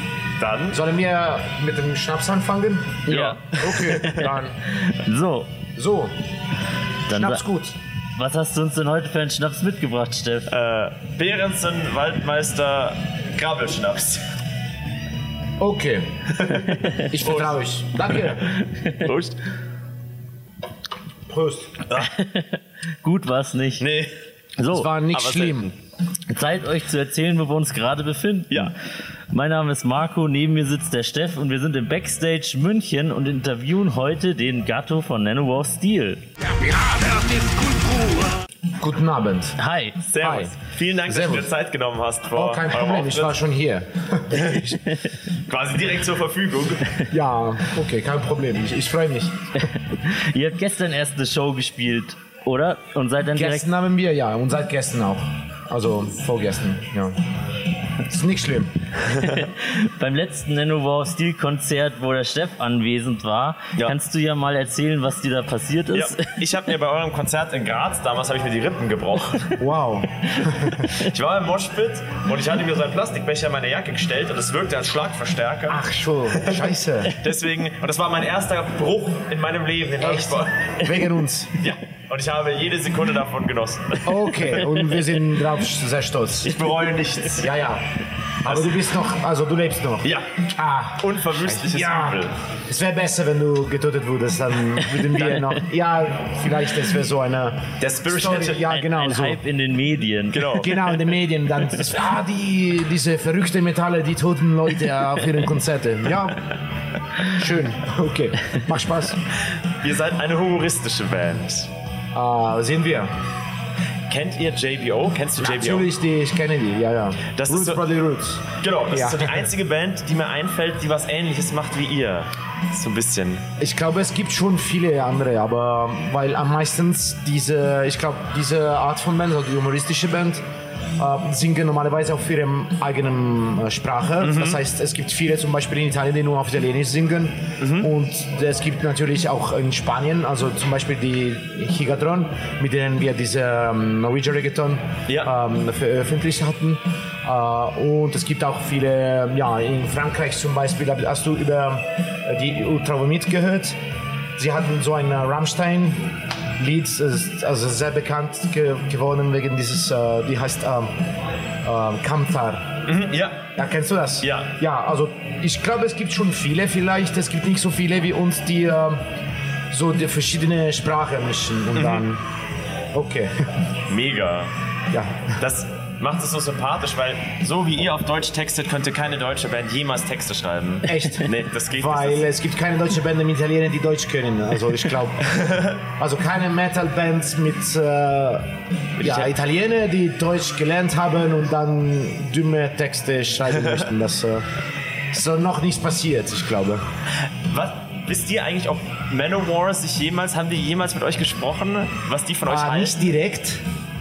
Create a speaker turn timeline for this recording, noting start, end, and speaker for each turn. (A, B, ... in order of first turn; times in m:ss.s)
0:00.4-0:00.8 A
0:00.7-0:04.6 B
0:03.1-0:04.2 C
0:03.1-0:03.4 A
0:04.9-0:05.5 C
0:05.8-0:06.1 B
0:07.1-0:07.4 C
0:07.1-0:07.8 B
0:08.2-0:10.5 C
0:10.5-0:14.2 A
0:15.6-0:16.1 B
0:17.1-0:18.4 B
0:17.2-0:18.3 A
0:19.0-0:19.3 A
0:21.3-0:21.8 B
0:22.0-0:23.8 C
0:23.8-0:24.1 A
0:24.6-0:24.9 C
0:24.7-0:25.7 B
0:25.1-0:25.7 A
0:26.3-0:28.7 C
0:29.3-0:36.2 C
0:38.8-0:39.5 B
0:39.6-0:40.0 C
0:40.1-0:43.4 A
0:40.2-0:40.5 B
0:41.0-0:41.5 B
0:42.3-0:44.8 B
0:45.5-0:46.8 A
0:47.1-0:49.4 B
0:49.6-0:53.7 C
0:53.3-0:57.2 B
0:58.1-0:58.7 B
0:59.2-1:06.3 C
1:05.9-1:09.4 A
1:09.6-1:10.8 B
1:11.1-1:15.8 A
1:15.7-1:17.1 B
1:17.2-1:20.5 A
1:20.0-1:21.6 B
1:21.6-1:24.1 A
1:24.0-1:26.6 B
1:26.4-1:27.5 A
1:27.4-1:27.8 B
1:28.4-1:39.4 B
1:28.4-1:28.8 A
1:31.0-1:32.3 A
1:37.8-1:38.7 A
1:38.7-1:40.5 C
1:40.3-1:40.8 A
1:40.5-1:46.4 B
1:47.3-1:49.2 B
1:49.8-1:51.7 A
1:52.1-1:53.1 B
1:54.1-1:55.9 A
1:55.4-1:59.4 B
1:57.2-1:57.8 A
1:58.6-2:03.4 A
2:03.6-2:10.4 B
2:11.0-2:33.8 B
2:14.2-2:14.6 A
2:17.6-2:17.9 A
2:25.1-2:25.3 A
2:34.4-2:40.9 B
2:41.6-2:42.7 B
2:42.8-2:43.5 A
2:43.6-2:49.0 B
2:44.2-2:44.6 A
2:49.7-2:52.2 B
2:51.7-2:52.0 A
2:52.9-2:53.3 B
2:53.9-2:54.5 A
2:54.9-2:55.3 B
2:55.4-3:02.3 A
3:00.8-3:05.2 B
3:06.0-3:14.4 B
3:09.0-3:09.3 A
3:15.1-3:16.8 B
3:17.5-3:23.0 A
3:22.4-3:23.6 B